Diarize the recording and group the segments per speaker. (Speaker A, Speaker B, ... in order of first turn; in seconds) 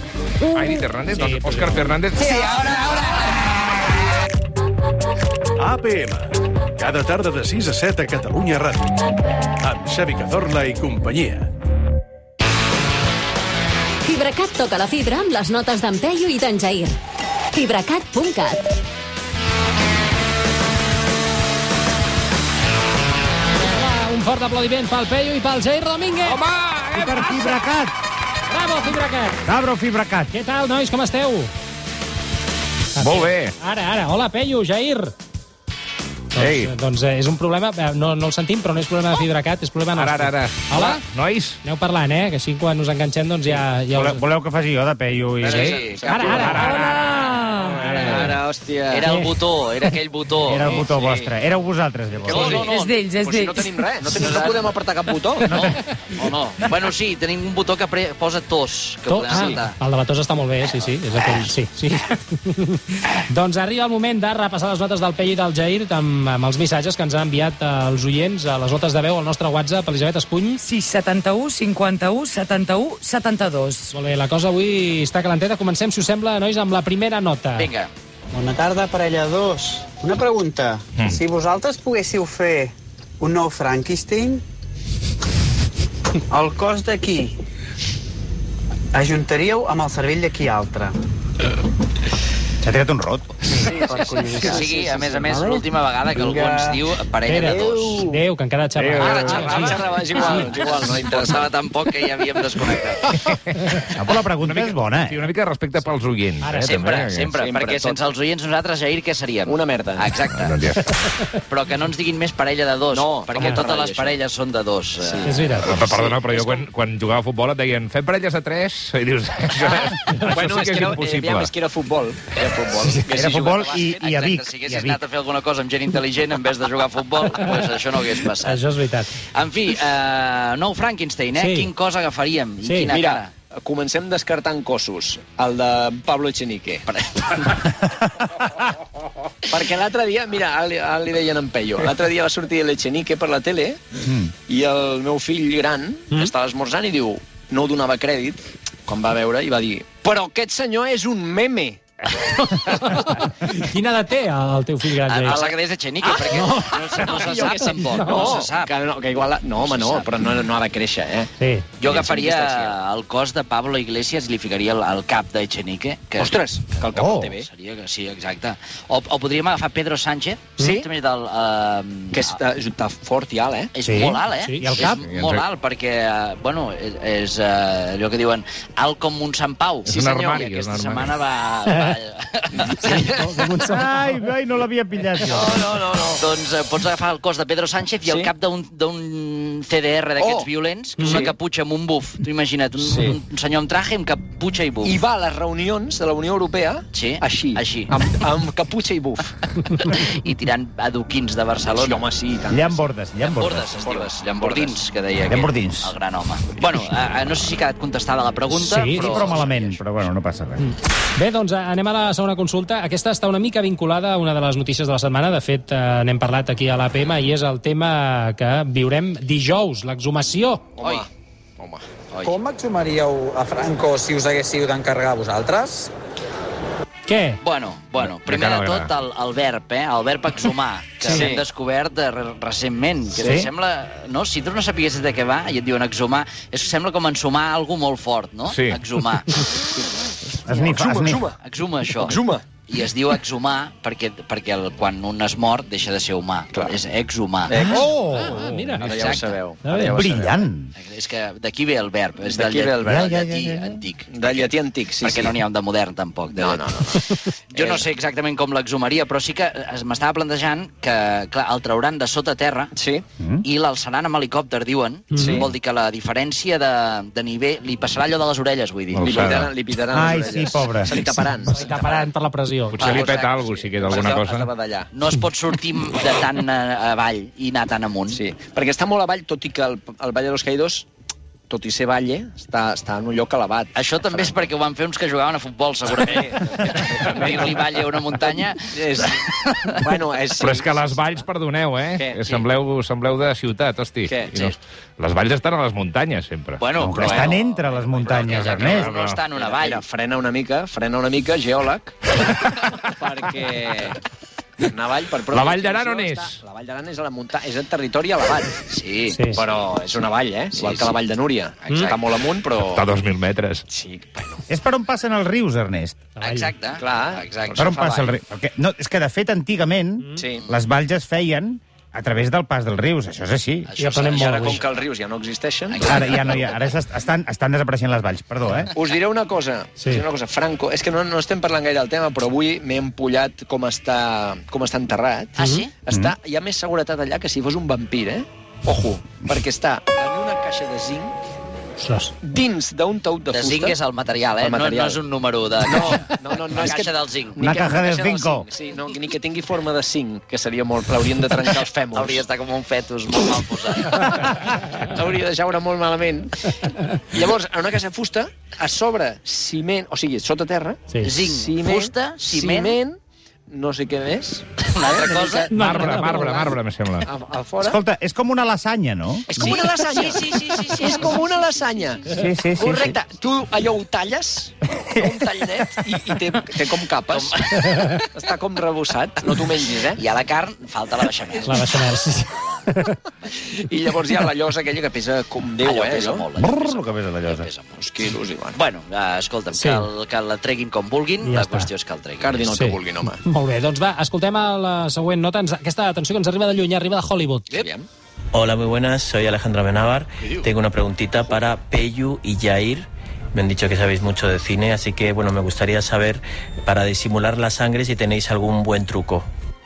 Speaker A: 0.5-2.4, 26.2-27.2, 33.0-33.5, 36.4-36.7, 39.9-41.6, 46.2-47.1, 47.9-48.3, 98.8-99.5, 104.4-107.3, 110.3-110.8, 115.6-121.5, 174.8-175.4, 179.8-181.1, 228.0-228.9, 238.5-238.8, 268.9-269.5, 272.7-274.5, 290.4-297.1, 298.3-299.2, 305.3-306.4, 312.6-313.6, 365.5-367.1
Speaker B: 1.1-1.9, 23.8-26.4, 27.0-27.6, 28.5-29.4, 30.3-31.5, 32.9-35.1, 36.3-41.0, 41.6-44.2, 46.0-46.6, 48.0-48.2, 49.0-49.4, 59.1-70.6, 73.9-77.7, 97.2-100.5, 106.4-106.8, 113.3-113.7, 115.2-115.6, 128.4-129.1, 131.3-131.7, 132.6-132.9, 152.3-155.4, 157.6-158.3, 161.4-161.7, 174.4-174.7, 183.1-184.2, 191.0-191.3, 208.5-209.2, 210.6-220.7, 227.1-227.4, 248.0-248.9, 249.6-250.0, 265.1-265.4, 271.5-272.9, 316.1-316.5, 323.8-324.6, 329.8-330.0, 335.4-335.7, 341.8-342.1, 365.5-366.3, 381.5-382.9, 389.5-389.9, 391.2-391.7, 392.5-397.5
Speaker C: 5.6-8.8, 9.6-11.5
Speaker D: 14.0-16.9, 17.5-18.7
Speaker E: 26.9-27.9, 29.4-30.3, 43.9-46.0, 50.4-52.7, 55.5-55.8, 92.6-93.3, 103.9-105.2, 123.1-125.0, 144.0-144.3, 166.9-167.3, 173.8-175.0, 183.6-185.6, 202.5-203.7, 205.2-205.9, 208.9-210.6, 233.2-233.5, 240.4-241.2, 247.5-248.6, 249.7-250.7, 252.8-253.8, 263.2-263.4, 269.9-271.3, 296.8-298.9, 314.5-316.0, 317.6-323.7, 325.8-328.7, 347.4-348.5, 367.6-369.5, 372.1-372.9, 374.8-375.1, 386.4-387.5
Speaker F: 45.4-46.5, 48.9-50.7, 52.2-53.0, 54.1-54.7, 55.5-59.7, 61.2-61.5, 77.6-77.9, 93.9-98.1, 99.0-103.0, 106.7-110.6, 111.5-116.3, 123.1-128.6, 129.2-133.3, 136.9-137.7, 155.0-158.7, 159.6-160.1, 161.8-166.4, 167.4-172.4, 173.7-183.0, 185.2-195.0, 196.9-197.9, 199.8-202.0, 203.2-209.8, 220.8-221.0, 222.1-222.4, 227.4-239.4, 241.4-247.6, 248.8-249.4, 250.8-262.7, 263.4-269.3, 272.8-273.2, 274.9-278.2, 283.7-289.8, 296.6-297.4, 298.0-299.8, 308.7-309.2, 310.5-311.0, 311.6-312.0, 316.2-318.1, 323.6-324.6, 325.7-326.5, 335.4-335.7, 343.3-347.4, 351.9-354.0, 361.0-362.8, 364.7-365.5, 369.3-371.3, 377.1-377.9, 379.9-382.7, 385.6-387.8, 388.5-392.5
Speaker G: 45.5-46.6, 47.9-49.1, 50.6-51.3, 52.2-55.5, 59.3-59.6, 93.6-95.1, 99.1-101.5, 107.3-108.0, 109.5-110.1, 112.9-114.2, 115.0-116.5, 119.6-124.0, 132.9-136.8, 139.5-143.8, 144.5-151.8, 155.2-161.3, 161.8-162.8, 166.2-167.5, 170.6-170.9, 172.1-173.7, 179.9-180.4, 182.6-183.6, 185.2-186.2, 188.0-188.3, 190.2-191.3, 192.8-193.2, 194.8-199.3, 201.7-202.8, 203.8-204.8, 220.8-221.1, 221.6-221.8, 231.0-231.4, 240.4-241.3, 242.0-242.4, 247.5-250.5, 252.2-253.0, 254.1-255.4, 256.3-257.0, 257.5-257.9, 262.8-263.0, 265.2-265.5, 269.0-272.1, 272.8-274.9, 278.1-280.9, 281.5-284.5, 285.9-289.2, 289.8-291.1, 291.9-292.2, 294.0-294.6, 297.0-298.8, 299.3-304.0, 304.6-308.5, 309.3-313.0, 313.7-314.4, 316.7-317.7, 320.2-320.4, 324.1-326.4, 328.7-341.1, 342.2-343.8, 344.4-345.0, 345.6-352.2, 353.8-356.4, 357.1-363.0, 363.5-367.8, 369.3-380.0, 381.3-381.6, 383.4-386.2, 387.8-388.6, 392.2-393.2, 397.5-397.9
Speaker H: 46.5-48.0, 52.6-54.4, 70.6-73.9, 248.0-248.3
Speaker I: 78.3-84.4, 86.3-87.4, 88.9-90.9, 93.9-96.8, 222.2-225.9
Speaker J: 398.3-409.3